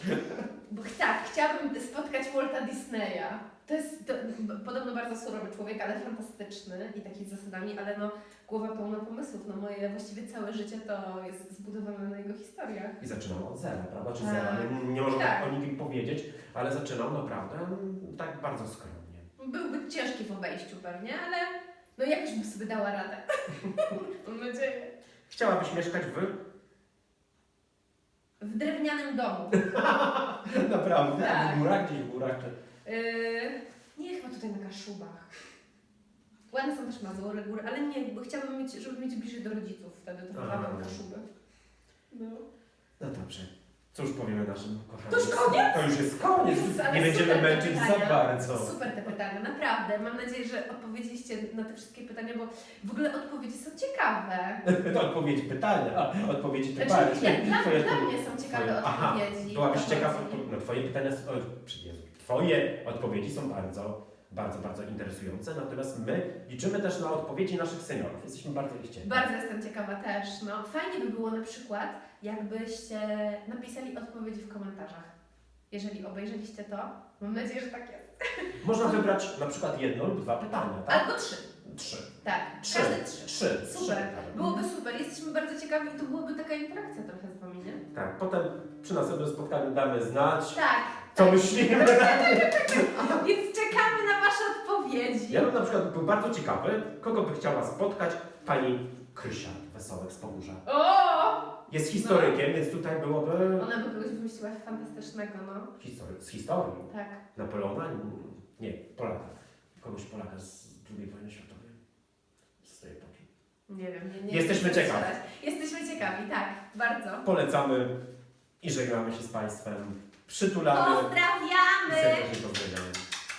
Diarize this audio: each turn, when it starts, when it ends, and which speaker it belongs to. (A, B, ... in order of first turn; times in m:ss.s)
0:00.4-0:13.0 A
0:13.0-0:19.3 B
0:14.2-0:15.5 A
0:19.4-0:24.9 A
0:25.3-0:26.3 B
0:28.4-0:29.6 A
0:29.6-0:32.5 B
0:31.1-0:31.7 A
0:32.8-0:35.3 A
0:36.5-0:41.3 A
0:40.4-0:41.0 B
0:42.1-0:42.4 A
0:43.0-0:48.8 B
0:45.1-0:54.6 A
0:54.6-1:09.2 B
0:56.8-1:00.5 A
1:09.0-1:15.2 A
1:15.7-1:19.1 A
1:18.6-1:21.1 B
1:20.9-1:21.5 A
1:21.6-1:22.1 B
1:22.2-1:27.8 A
1:22.6-1:24.6 B
1:27.9-1:33.2 B
1:30.5-1:35.5 A
1:35.3-1:40.6 B
1:40.6-1:42.4 A
1:41.7-1:43.7 B
1:43.6-1:45.7 A
1:45.8-1:51.8 B
1:46.9-1:47.2 A
1:52.6-1:53.3 B
1:53.7-1:57.3 A
1:54.3-1:55.1 B
1:57.2-1:57.9 B
1:58.6-2:01.1 B
2:00.7-2:02.3 A
2:01.9-2:03.0 B